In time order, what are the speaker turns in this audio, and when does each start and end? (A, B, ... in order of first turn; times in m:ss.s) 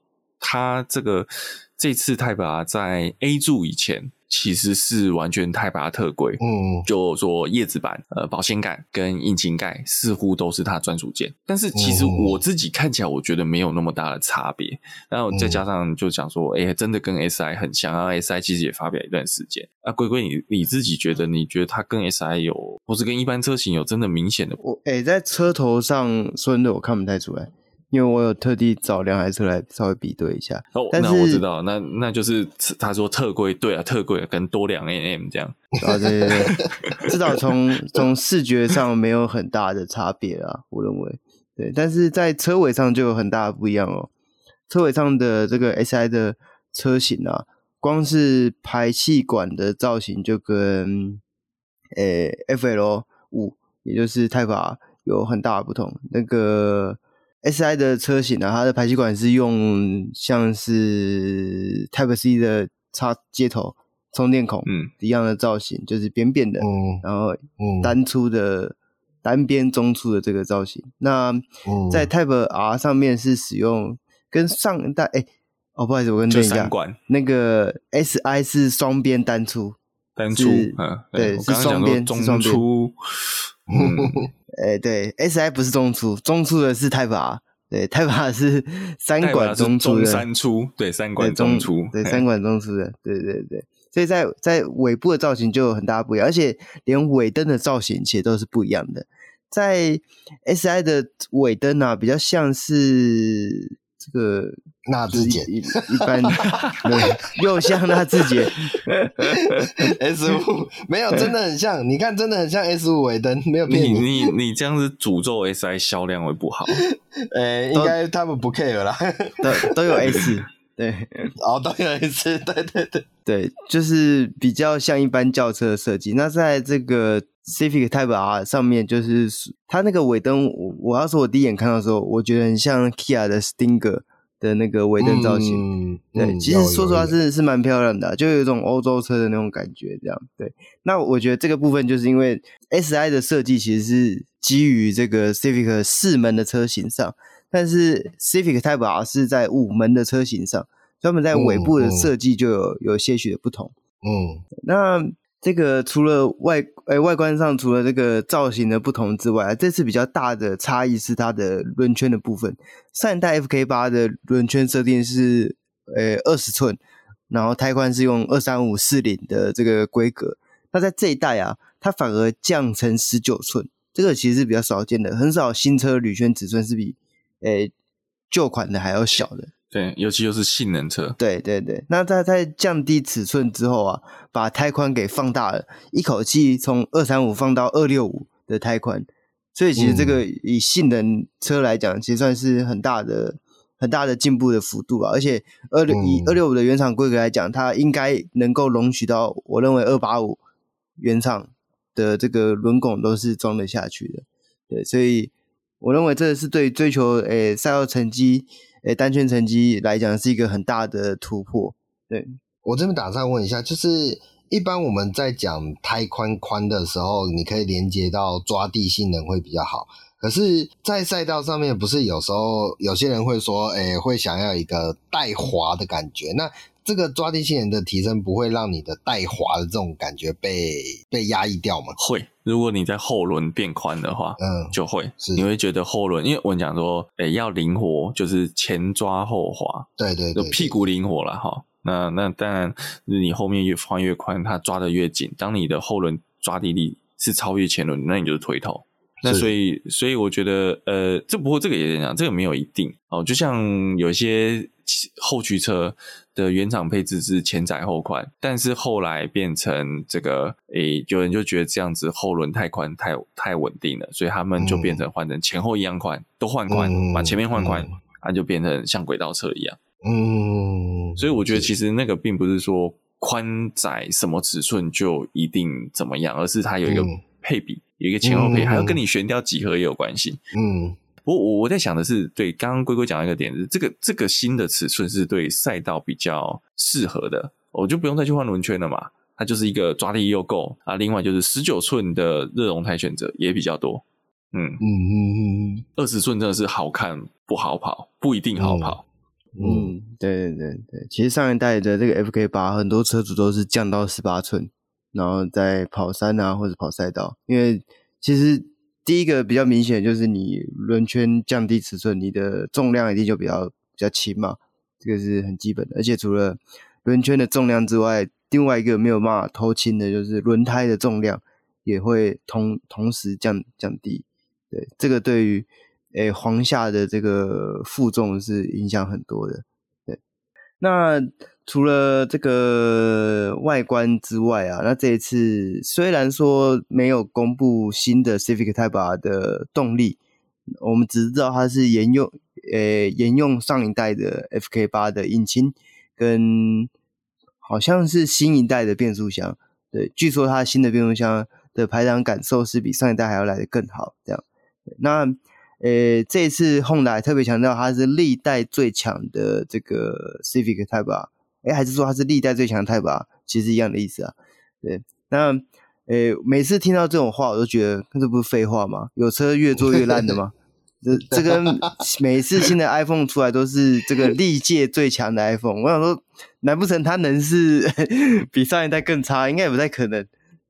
0:00.4-0:24.6 A
0:06.4-0:06.9 B
0:11.8-0:12.4 B
0:15.3-0:15.6 B
0:24.6-0:31.4 C
0:30.8-0:35.7 A
0:35.8-0:44.1 C
0:35.9-0:36.7 B
0:36.8-0:37.1 A
0:44.7-0:51.2 C
0:52.0-1:19.8 C
1:04.7-1:04.9 A
1:06.6-1:07.0 B
1:07.6-1:08.0 B
1:11.7-1:12.1 B
1:16.3-1:17.0 A
1:20.2-1:24.3 A
1:20.3-1:22.6 C
1:23.7-1:24.3 B
1:24.5-1:30.3 C
1:29.2-1:32.2 A
1:31.2-1:49.7 C
1:44.9-1:47.0 B
1:49.8-1:54.3 B
1:53.7-1:56.8 A
1:56.9-2:00.3 B
1:59.4-2:01.4 C
2:01.4-2:03.0 B
2:03.3-2:15.7 C
2:15.0-2:17.2 B
2:16.2-2:33.7 C
2:31.3-2:32.1 B
2:34.0-2:34.4 B
2:34.6-2:46.8 C
2:47.3-2:57.7 C
2:58.3-2:59.5 C
2:59.7-3:01.2 A
3:01.2-3:20.4 C
3:09.8-3:10.2 B
3:15.9-3:16.4 B
3:21.0-3:32.4 C
3:32.6-3:52.0 B
3:52.0-4:29.8 A
3:54.4-3:55.4 B
4:00.0-4:00.8 B
4:09.2-4:09.5 B
4:24.6-4:25.0 B
4:26.7-4:27.9 B
4:30.0-4:31.7 B
4:31.2-4:40.4 A
4:36.9-4:37.2 B
4:38.2-4:39.0 B
4:40.5-4:41.0 B
4:41.2-4:54.8 A
4:54.8-4:55.8 B
4:56.0-4:59.0 A
4:58.6-4:59.0 B
4:59.6-5:30.2 C
4:59.6-4:59.9 B
5:30.8-5:40.2 C
5:40.8-5:46.9 C
5:47.6-5:54.4 C
5:55.0-6:20.3 C
6:09.9-6:10.3 B
6:11.3-6:11.9 B